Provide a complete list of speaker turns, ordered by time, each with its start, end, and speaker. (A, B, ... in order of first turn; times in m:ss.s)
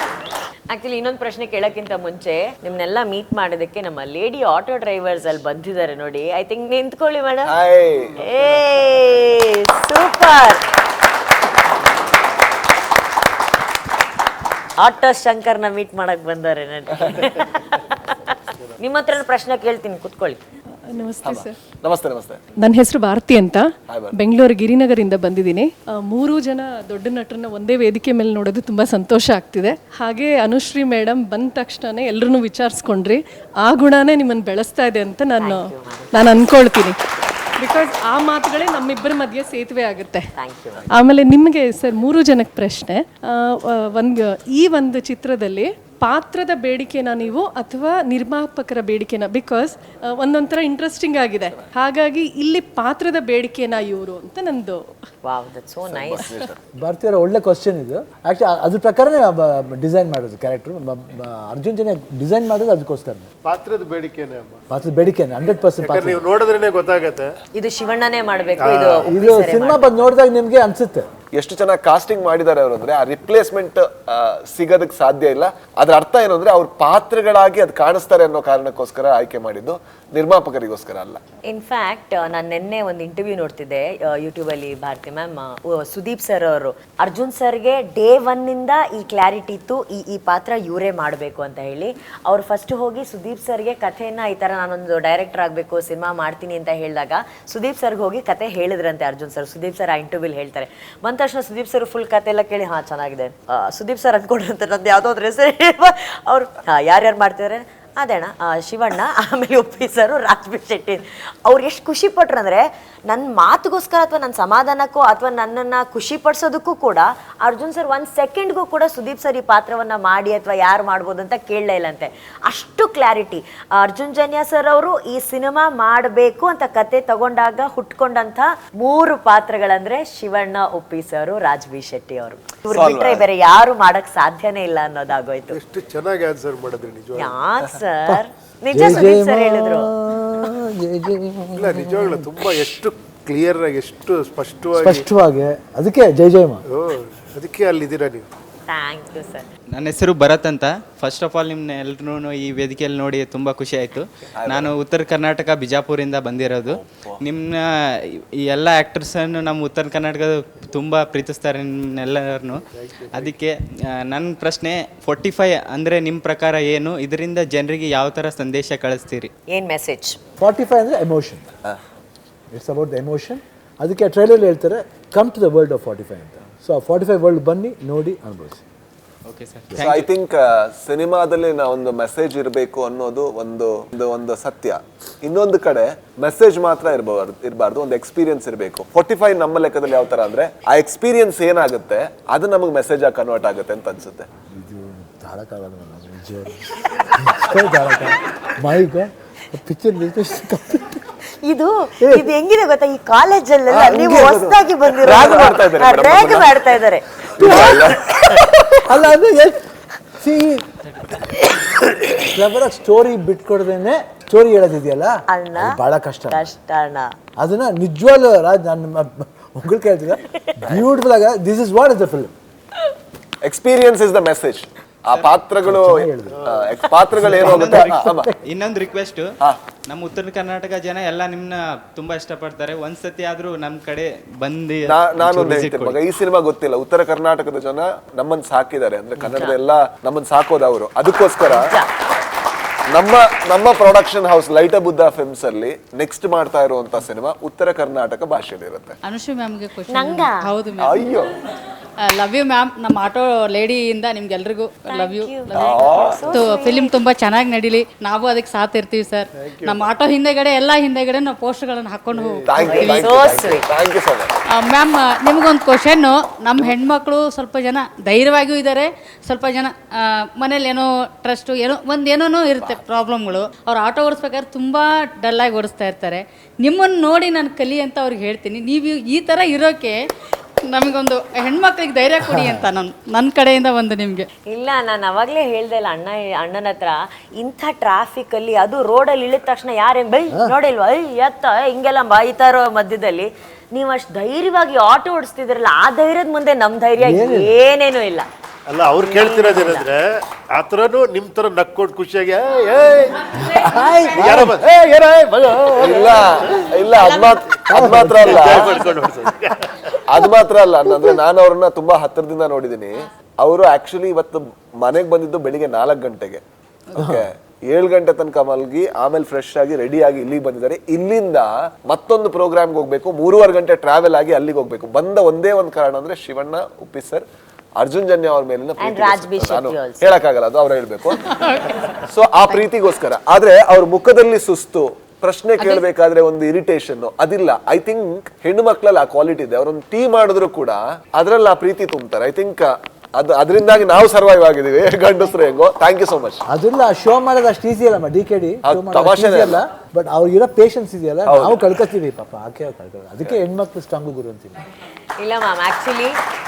0:00.7-0:07.5 A
0:07.4-0:08.2 B
0:08.2-0:10.6 A
0:14.8-0:20.4 A
0:20.9-0:21.6 C
0:21.2-0:22.4 B
0:22.6-0:37.0 C
0:23.9-0:24.2 B
0:35.4-0:36.1 A
0:37.6-0:40.3 C
0:40.4-0:40.8 A
0:40.9-0:54.9 C
0:55.2-0:56.5 A
0:55.8-0:56.6 B
0:56.8-1:03.3 D
1:03.4-1:04.6 E
1:04.7-1:06.2 D
1:05.8-1:07.3 E
1:07.5-1:10.0 A
1:08.6-1:09.1 E
1:09.0-1:11.1 D
1:11.3-1:21.2 B
1:21.5-2:15.6 A
2:12.7-2:13.3 B
2:15.5-2:17.4 E
2:17.1-2:19.9 A
2:18.0-2:22.3 D
2:21.6-2:25.0 E
2:24.8-2:26.6 D
2:26.7-2:28.3 E
2:28.7-2:29.5 A
2:29.7-2:37.6 F
2:34.4-2:34.7 B
2:36.7-2:37.2 B
2:38.5-2:42.6 F
2:43.0-2:43.3 E
2:43.1-2:43.5 F
2:44.1-2:49.3 F
2:49.5-2:50.2 A
2:50.4-2:51.5 D
2:52.5-2:58.6 D
2:59.2-3:00.1 F
2:59.8-3:14.2 B
3:14.5-3:21.0 D
3:21.4-3:27.6 A
3:22.0-3:22.3 D
3:23.7-3:26.6 B
3:27.4-3:28.0 D
3:27.4-3:28.0 B
3:28.8-3:29.6 D
3:30.2-3:30.6 D
3:32.2-3:36.5 D
3:35.3-3:35.8 A
3:36.3-3:37.1 A
3:37.4-3:42.3 D
3:43.4-3:48.3 B
3:45.6-3:46.5 D
3:46.3-3:46.7 E
3:47.1-3:48.4 D
3:47.3-3:49.3 F
3:49.9-3:56.0 F
3:54.9-4:01.7 B
4:01.4-4:01.9 A
4:02.9-4:09.0 B
4:09.0-4:11.0 G
4:09.9-4:10.5 A
4:10.8-4:11.3 B
4:12.0-4:15.8 G
4:14.9-4:17.0 A
4:15.5-4:16.5 B
4:16.3-4:23.5 G
4:19.4-4:19.8 E
4:22.1-4:23.4 E
4:22.5-4:24.3 B
4:22.6-4:23.7 A
4:24.6-4:40.0 G
4:40.7-4:44.3 G
4:42.3-4:42.6 D
4:44.5-4:58.3 A
4:57.0-4:57.6 D
4:58.7-5:03.2 E
4:59.0-4:59.9 A
5:03.4-5:04.6 D
5:04.1-5:06.6 E
5:05.8-5:08.8 B
5:07.7-5:09.1 D
5:08.2-5:09.8 E
5:10.1-5:16.4 B
5:10.8-5:11.2 D
5:17.0-5:17.2 D
5:17.0-5:27.2 B
5:27.8-5:31.2 B
5:28.8-5:30.1 A
5:31.4-5:31.8 G
5:32.0-5:46.4 B
5:46.5-5:54.6 D
5:48.6-5:49.6 B
5:51.2-5:51.8 B
5:55.2-5:56.1 A